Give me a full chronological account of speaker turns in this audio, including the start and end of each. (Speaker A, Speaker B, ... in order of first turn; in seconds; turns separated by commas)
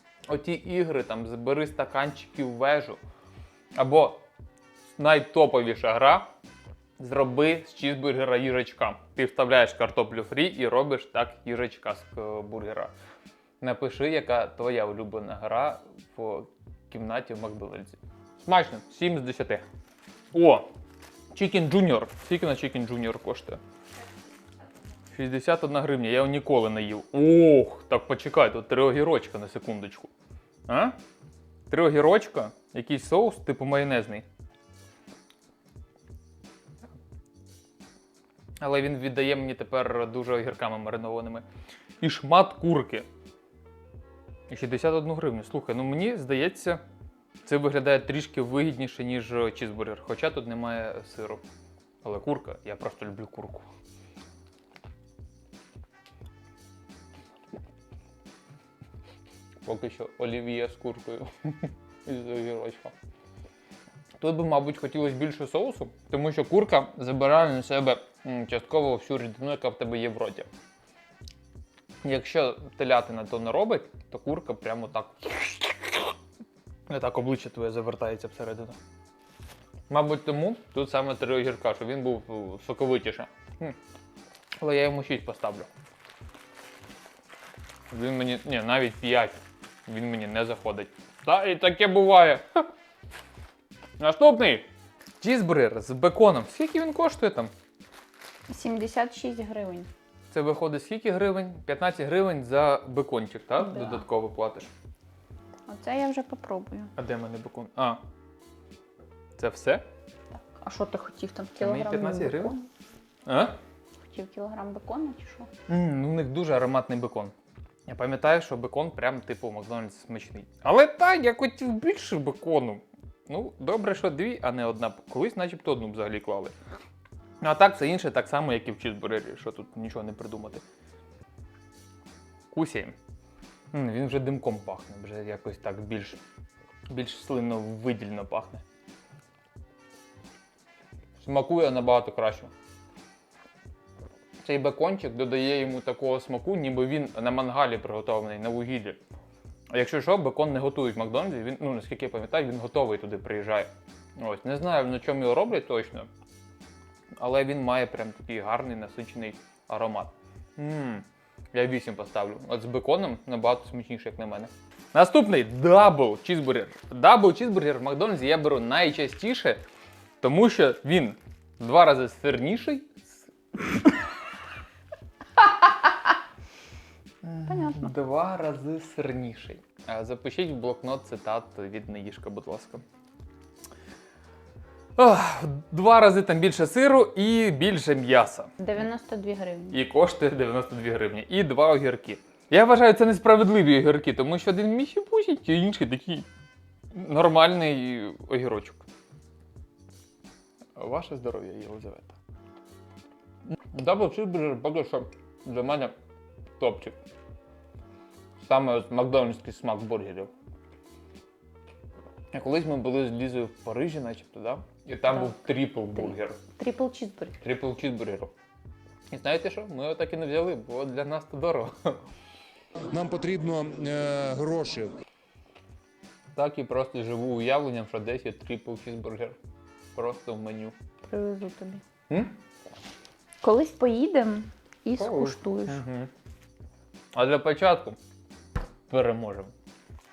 Speaker A: 0.3-3.0, Speaker A: 3.8-4.2, Speaker A: 5.0-6.3, Speaker A: 7.0-12.9, Speaker A: 13.6-19.6, Speaker A: 20.3-20.7, Speaker A: 21.3-23.6, Speaker A: 25.1-30.1, Speaker A: 30.7-31.0, Speaker A: 31.7-34.3, Speaker A: 38.6-41.5, Speaker A: 42.0-43.1, Speaker A: 44.5-46.8, Speaker A: 47.4-51.4, Speaker A: 52.0-53.7, Speaker A: 59.6-62.9, Speaker A: 64.2-70.5, Speaker A: 72.0-76.2, Speaker A: 76.9-78.8, Speaker A: 79.9-83.8, Speaker A: 84.6-85.7, Speaker A: 87.9-92.7, Speaker A: 94.0-94.7, Speaker A: 95.2-97.5, Speaker B: 98.5-99.9, Speaker A: 100.3-104.7, Speaker B: 103.6-104.1, Speaker B: 105.7-106.9, Speaker A: 107.0-108.0, Speaker A: 109.4-109.8, Speaker B: 110.3-112.7, Speaker A: 111.6-112.5, Speaker A: 113.3-113.6, Speaker B: 114.0-115.5, Speaker A: 115.7-117.3, Speaker A: 117.9-126.5, Speaker A: 127.4-130.6, Speaker A: 132.5-132.9, Speaker A: 133.7-136.2, Speaker A: 136.9-138.6, Speaker A: 141.2-142.5, Speaker A: 144.4-149.0, Speaker A: 149.7-156.1, Speaker A: 157.2-169.6, Speaker A: 170.2-173.3, Speaker A: 177.2-182.8, Speaker B: 177.5-177.9, Speaker A: 185.0-188.5, Speaker B: 188.6-189.8, Speaker A: 189.7-196.3, Speaker A: 196.9-198.8, Speaker A: 200.8-202.2, Speaker A: 203.5-205.9, Speaker A: 206.6-207.0, Speaker A: 208.4-210.3, Speaker A: 212.3-216.4, Speaker B: 215.1-215.4, Speaker B: 216.0-217.4, Speaker A: 217.4-218.3, Speaker A: 219.1-222.0, Speaker C: 222.8-225.0, Speaker A: 226.4-229.4, Speaker A: 229.9-230.8, Speaker B: 231.0-231.8, Speaker A: 232.1-232.4, Speaker B: 233.4-235.8, Speaker A: 235.0-236.1, Speaker A: 237.1-238.0, Speaker A: 238.9-239.5